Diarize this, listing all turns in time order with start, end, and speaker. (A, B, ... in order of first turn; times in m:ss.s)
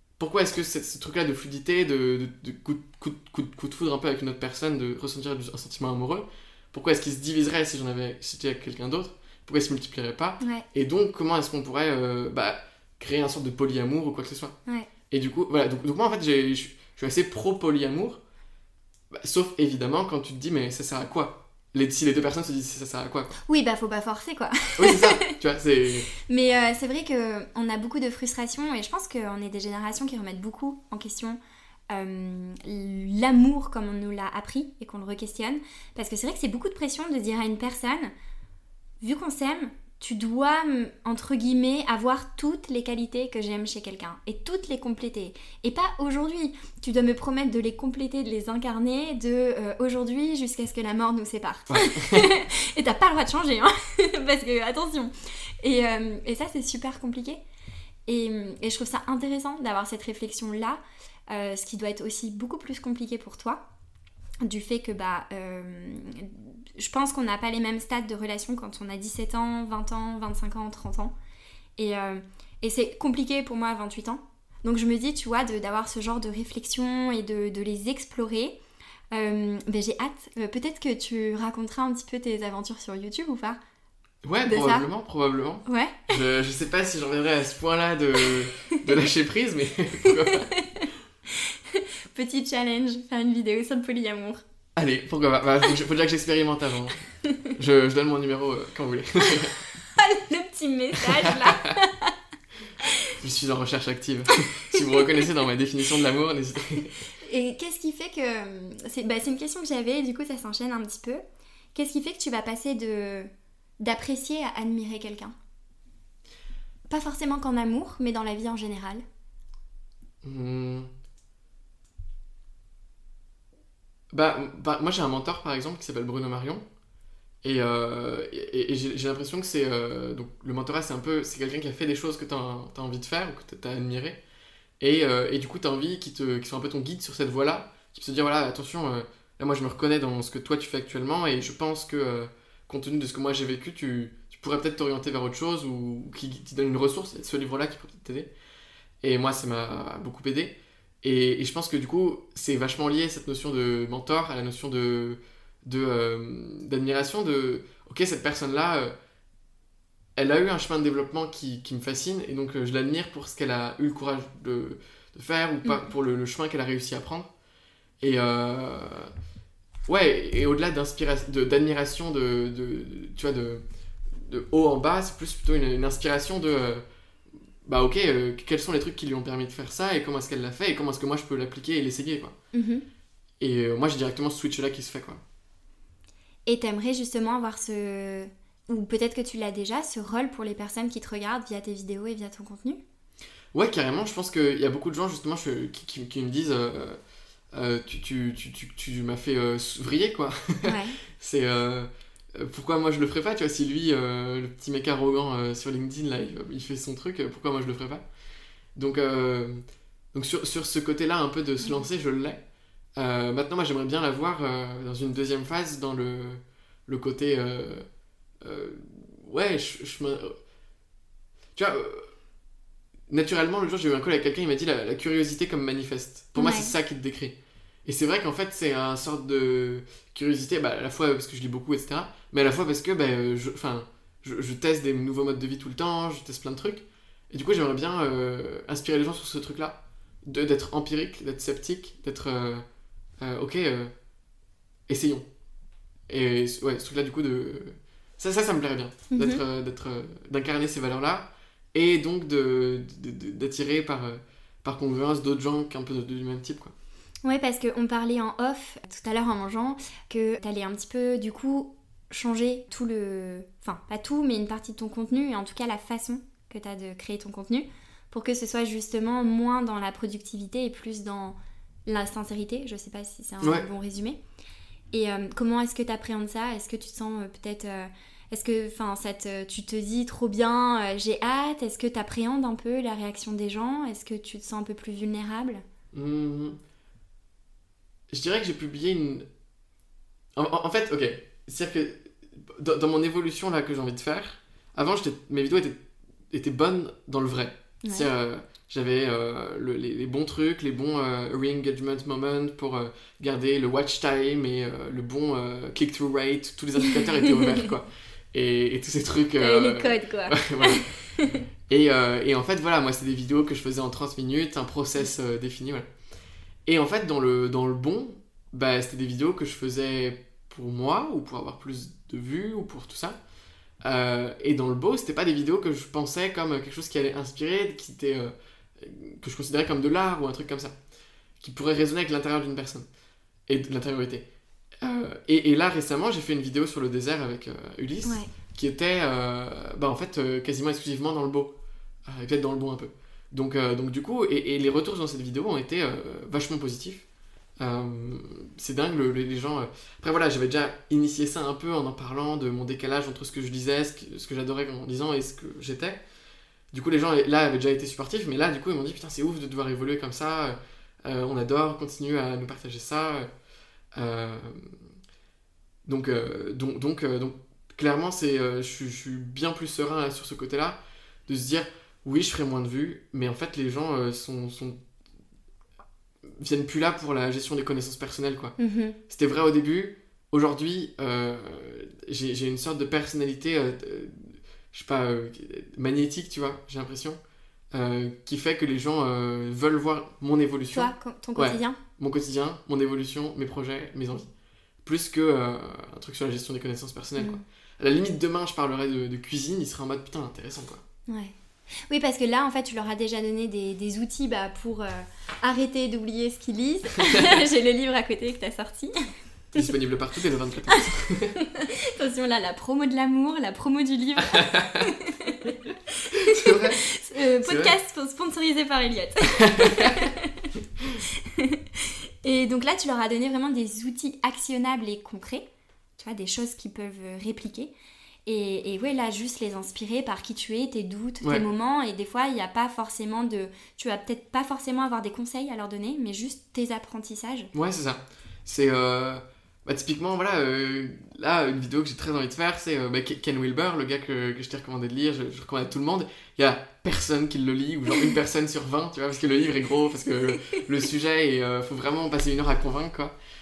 0:00.2-0:14.6 A
0:15.1-0:18.2 A
0:19.1-0:23.4 A
0:23.5-0:25.3 B
0:24.8-0:26.1 A
0:26.1-0:31.4 B
0:31.9-0:38.1 B
0:39.0-0:57.4 B
0:51.7-0:52.3 A
0:58.1-1:03.6 B
1:04.4-1:11.1 B
1:11.8-1:18.6 B
1:19.1-1:23.6 B
1:24.2-1:30.5 A
1:24.5-1:24.9 B
1:25.7-1:26.1 B
1:30.0-1:34.4 B
1:34.8-1:39.6 A
1:37.2-1:37.5 B
1:39.9-1:42.1 B
1:41.0-1:41.8 A
1:42.8-1:43.1 B
1:43.1-1:47.0 A
1:44.7-1:45.0 B
1:47.2-1:51.2 B
1:51.8-1:55.4 B
1:56.9-1:59.0 B
2:00.2-2:00.9 A
2:04.1-2:06.6 A
2:07.4-2:14.2 A
2:14.8-2:28.3 A
2:29.0-2:38.9 A
2:40.2-2:47.3 A
2:48.0-2:49.1 A
2:49.9-2:53.6 A
2:54.2-2:56.8 A
2:57.6-3:02.4 A
3:02.5-3:02.8 B
3:03.4-3:05.2 A
3:06.5-3:12.8 B
3:13.5-3:17.0 A
3:17.5-3:28.0 A
3:20.6-3:21.0 B
3:28.8-3:32.4 A
3:33.0-3:37.8 A
3:38.4-3:40.4 A
3:41.6-3:42.1 A
3:43.1-4:02.6 A
3:46.4-3:46.7 B
4:03.2-4:03.9 A
4:04.9-4:05.3 A
4:06.1-4:16.7 A
4:09.1-4:09.4 B
4:17.2-4:31.4 B
4:31.9-4:34.2 B
4:34.9-4:45.6 B
4:45.9-4:46.6 A
4:48.1-4:49.3 A
4:50.4-4:55.8 A
4:56.3-5:10.9 A
4:57.8-4:58.1 B
5:06.8-5:07.7 B
5:09.4-5:11.4 B
5:11.7-5:15.9 A
5:16.7-5:23.2 A
5:23.8-5:30.8 A
5:31.4-5:32.9 A
5:33.5-5:34.3 A
5:34.8-5:41.5 A
5:38.0-5:38.3 B
5:42.1-5:47.0 A
5:47.6-5:56.0 A
5:56.7-6:03.3 A
6:04.0-6:04.8 A
6:05.8-6:14.8 A
6:16.2-6:18.6 A
6:18.6-6:19.0 B
6:19.1-6:27.2 A
6:27.7-6:34.3 A
6:30.7-6:31.8 B
6:34.8-6:40.8 A
6:37.2-6:37.4 B
6:41.1-6:41.4 B
6:41.9-6:49.7 B
6:49.5-6:51.4 A
6:51.4-7:00.5 B
6:54.3-6:54.9 A
6:56.1-6:57.8 A
6:59.4-7:00.1 A
7:01.0-7:05.4 B
7:06.0-7:07.7 B
7:08.3-7:17.5 B
7:17.5-7:33.2 A